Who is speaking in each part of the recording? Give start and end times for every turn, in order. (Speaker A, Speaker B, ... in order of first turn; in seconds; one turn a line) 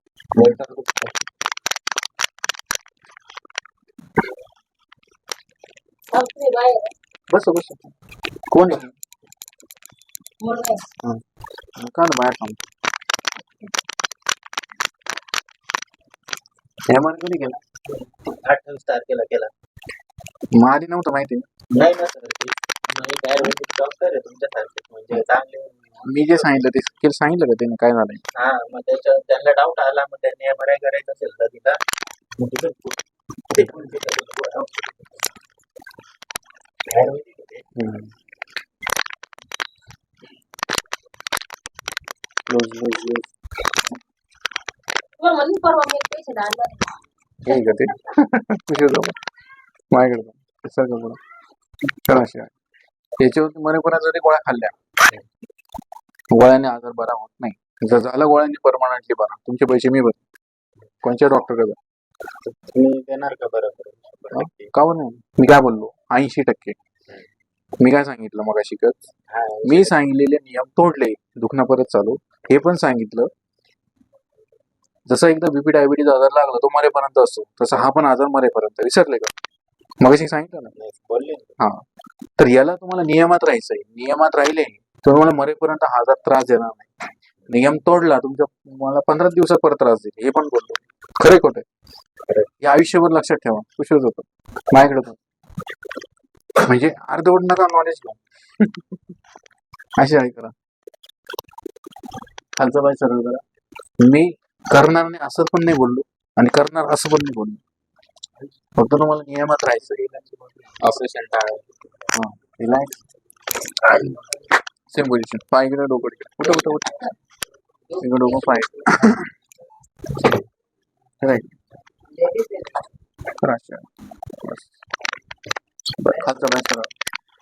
Speaker A: 0.4-1.1
Speaker B: 0.4-0.6
Speaker C: 6.1-6.9
Speaker A: 7.3-7.9
Speaker A: 8.5-8.9
Speaker C: 10.4-10.8
Speaker A: 11.8-12.6
Speaker A: 16.9-17.6
Speaker B: 18.4-19.5
Speaker A: 20.5-21.5
Speaker B: 21.7-26.7
Speaker A: 26.1-28.2
Speaker B: 28.4-31.8
Speaker B: 32.4-33.0
Speaker B: 33.5-35.3
Speaker A: 33.5-34.0
Speaker B: 36.9-37.7
Speaker A: 37.8-38.1
Speaker A: 42.5-43.3
Speaker C: 45.2-46.9
Speaker A: 47.5-49.2
Speaker A: 49.9-51.2
Speaker A: 52.1-52.5
Speaker A: 53.2-54.7
Speaker A: 56.3-60.2
Speaker A: 61.0-61.8
Speaker B: 62.5-64.8
Speaker A: 64.3-66.8
Speaker A: 67.8-69.1
Speaker B: 69.3-70.0
Speaker A: 69.7-73.3
Speaker A: 75.1-79.3
Speaker A: 80.0-80.7
Speaker B: 80.8-81.6
Speaker A: 81.6-81.8
Speaker A: 82.4-86.9
Speaker A: 87.5-91.7
Speaker A: 92.6-95.2
Speaker A: 96.6-99.1
Speaker A: 100.0-100.5
Speaker A: 102.6-103.4
Speaker A: 104.0-107.6
Speaker A: 108.8-110.2
Speaker B: 110.2-111.7
Speaker A: 112.1-113.0
Speaker A: 113.9-114.2
Speaker A: 114.9-117.1
Speaker A: 118.0-119.3
Speaker A: 121.2-121.5
Speaker A: 123.4-123.9
Speaker A: 124.4-124.8
Speaker A: 126.0-126.9